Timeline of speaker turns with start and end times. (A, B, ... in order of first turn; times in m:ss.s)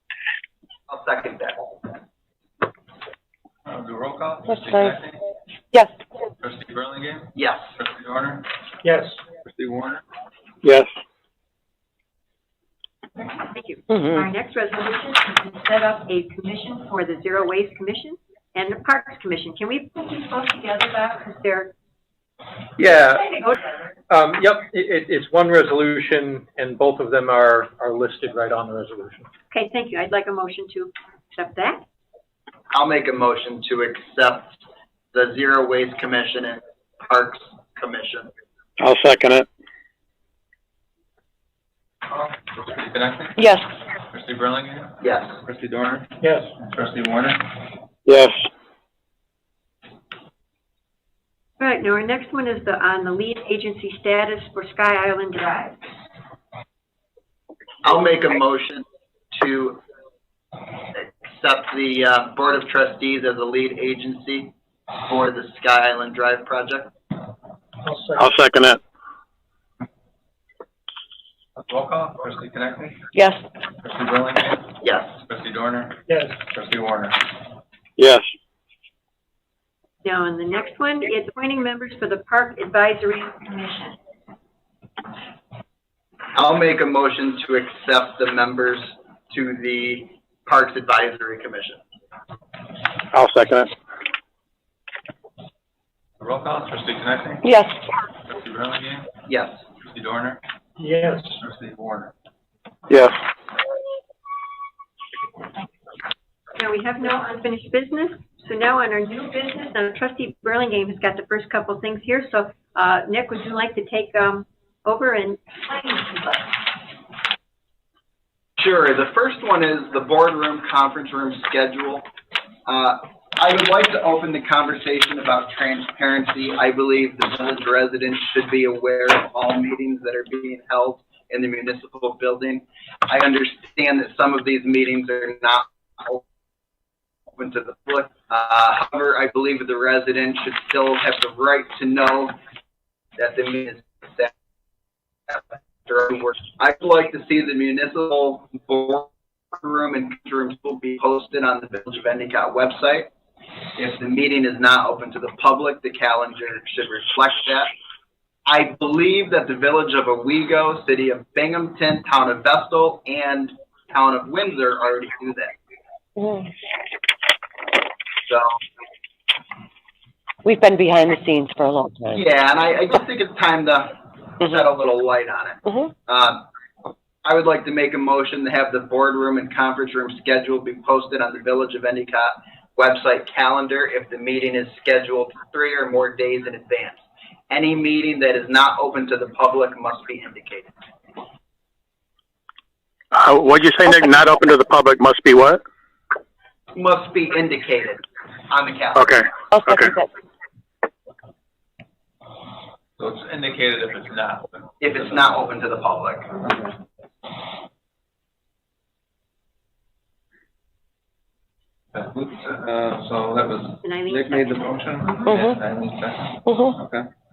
0:00.9-0:01.8 A
0:03.7-0:05.2 B
0:04.5-0:04.9 C
0:06.4-0:08.5 B
0:07.4-0:07.7 A
0:08.8-0:09.2 D
0:09.4-0:10.0 B
0:10.6-0:10.9 E
0:13.4-0:21.7 F
0:13.9-0:14.2 C
0:22.8-0:23.4 D
0:24.1-0:29.3 D
0:29.5-0:31.8 F
0:32.7-0:34.6 A
0:35.1-0:38.3 A
0:38.8-0:39.5 E
0:42.1-0:47.5 B
0:43.4-0:43.7 C
0:45.0-0:45.4 A
0:46.2-0:46.5 D
0:48.1-0:48.4 E
0:51.6-0:55.8 F
0:57.8-0:59.8 A
1:01.0-1:04.5 A
1:05.1-1:06.9 A
1:07.8-1:08.2 D
1:08.2-1:08.8 E
1:11.6-1:13.1 B
1:13.1-1:13.4 C
1:13.8-1:14.7 B
1:14.8-1:15.2 A
1:15.3-1:17.2 B
1:16.1-1:16.4 D
1:18.0-1:18.3 E
1:20.0-1:24.0 F
1:26.4-1:31.8 A
1:33.1-1:33.7 E
1:36.2-1:37.5 B
1:37.4-1:37.8 C
1:38.3-1:39.1 B
1:39.3-1:39.6 A
1:39.8-1:40.4 B
1:40.8-1:41.4 D
1:41.4-1:42.1 B
1:42.9-1:43.1 E
1:46.6-1:56.5 F
1:58.6-2:02.1 A
2:02.7-2:16.2 A
2:17.4-2:22.4 A
2:23.2-2:24.3 A
2:25.3-2:33.1 A
2:33.8-2:37.7 A
2:38.5-2:45.6 A
2:46.2-2:46.5 C
2:48.3-2:48.6 A
2:50.4-2:52.2 C
2:52.1-2:56.5 A
2:57.2-3:10.7 A
3:13.1-3:15.6 E
3:16.7-3:19.2 A
3:18.9-3:19.9 E
3:19.5-3:20.1 C
3:23.0-3:25.3 B
3:24.8-3:26.5 A
3:31.9-3:37.1 B
3:33.8-3:35.3 F
3:35.3-3:35.6 C
3:36.4-3:36.8 C